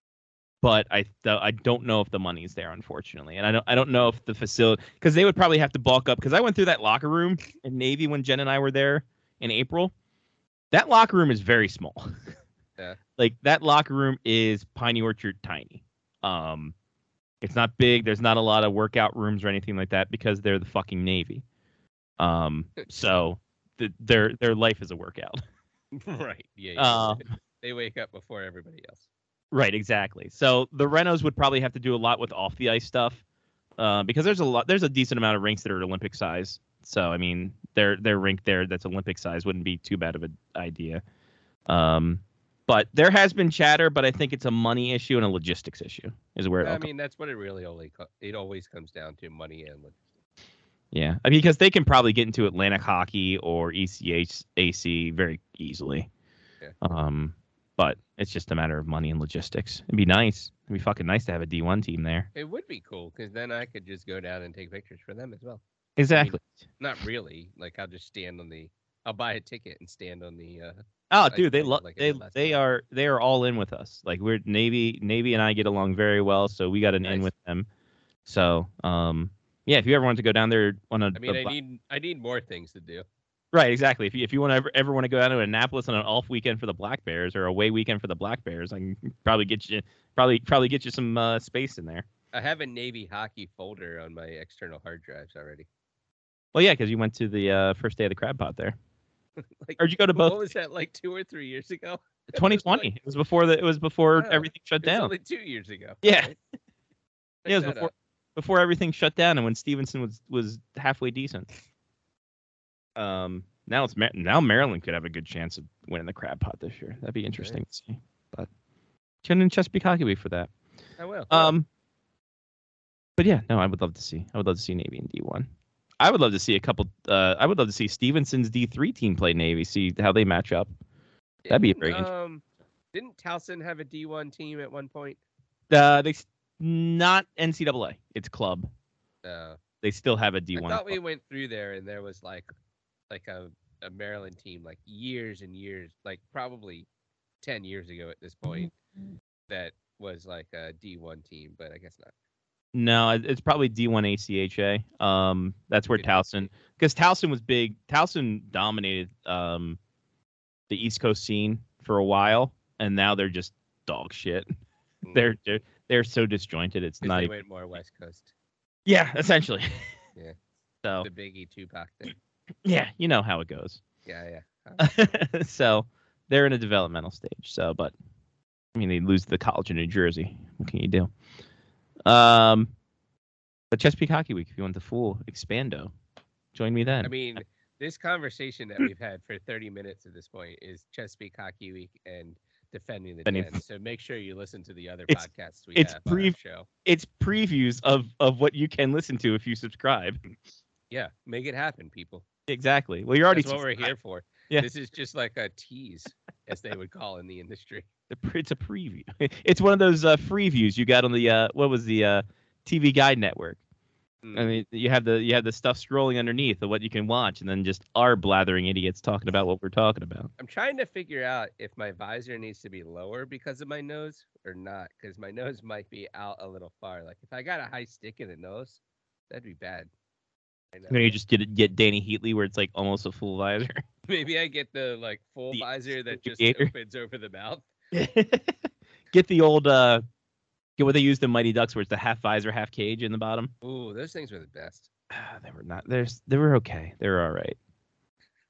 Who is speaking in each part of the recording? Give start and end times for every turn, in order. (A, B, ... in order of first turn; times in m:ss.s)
0:00.6-0:09.9 A
0:10.7-0:12.1 A
0:13.2-0:16.7 A
0:17.4-0:21.4 A
0:22.2-0:25.4 A
0:25.9-0:29.1 B
0:26.8-0:27.2 A
0:29.5-0:33.2 A
0:33.8-0:41.0 A
0:41.7-0:46.9 A
0:46.6-0:50.0 B
0:50.9-0:56.1 A
0:56.8-1:02.3 A
1:02.3-1:05.6 B
1:06.0-1:06.5 A
1:06.1-1:10.8 B
1:11.1-1:17.7 A
1:11.3-1:12.6 B
1:17.0-1:17.3 B
1:18.3-1:21.5 A
1:21.2-1:23.0 B
1:23.5-1:32.0 A
1:32.3-1:35.7 B
1:36.5-1:38.8 A
1:39.6-1:42.9 B
1:39.8-1:40.4 A
1:42.3-1:45.1 A
1:44.1-1:46.4 B
1:46.0-1:46.3 A
1:47.4-1:47.9 B
1:47.5-1:51.5 A
1:53.0-1:58.5 A
1:59.2-2:00.5 A
2:01.0-2:01.5 B
2:01.3-2:01.7 A
2:03.2-2:05.5 A
2:06.0-2:10.7 A
2:11.4-2:15.2 B
2:11.5-2:12.1 A
2:15.7-2:18.7 A
2:19.2-2:19.6 B
2:19.8-2:21.0 A
2:20.6-2:22.5 B
2:23.1-2:26.9 B
2:27.4-2:28.7 B
2:29.5-2:32.1 B
2:32.7-2:39.8 A
2:35.9-2:36.5 B
2:40.7-2:44.5 A
2:45.0-2:45.3 B
2:45.1-2:47.3 A
2:47.0-2:48.3 B
2:48.8-2:49.9 A
2:51.0-2:52.1 B
2:52.6-2:53.8 A
2:54.0-2:54.9 B
2:54.8-2:57.9 A
2:58.7-3:01.1 A
3:02.0-3:02.7 A
3:03.7-3:05.9 A
3:06.5-3:07.4 A
3:07.0-3:16.7 B
3:13.3-3:13.6 A
3:15.1-3:16.3 A
3:16.8-3:20.2 A
3:20.9-3:22.2 B
3:22.5-3:23.9 A
3:23.3-3:27.8 B
3:28.1-3:33.6 A
3:34.2-3:34.5 B
3:34.3-3:40.3 A
3:40.4-3:49.9 B
3:50.7-3:51.2 B
3:50.9-3:53.8 A
3:54.1-3:57.7 B
3:55.5-3:56.7 A
3:57.9-3:58.5 A
3:59.1-4:00.0 A
4:00.8-4:03.5 A
4:03.6-4:04.9 B
4:05.1-4:07.6 A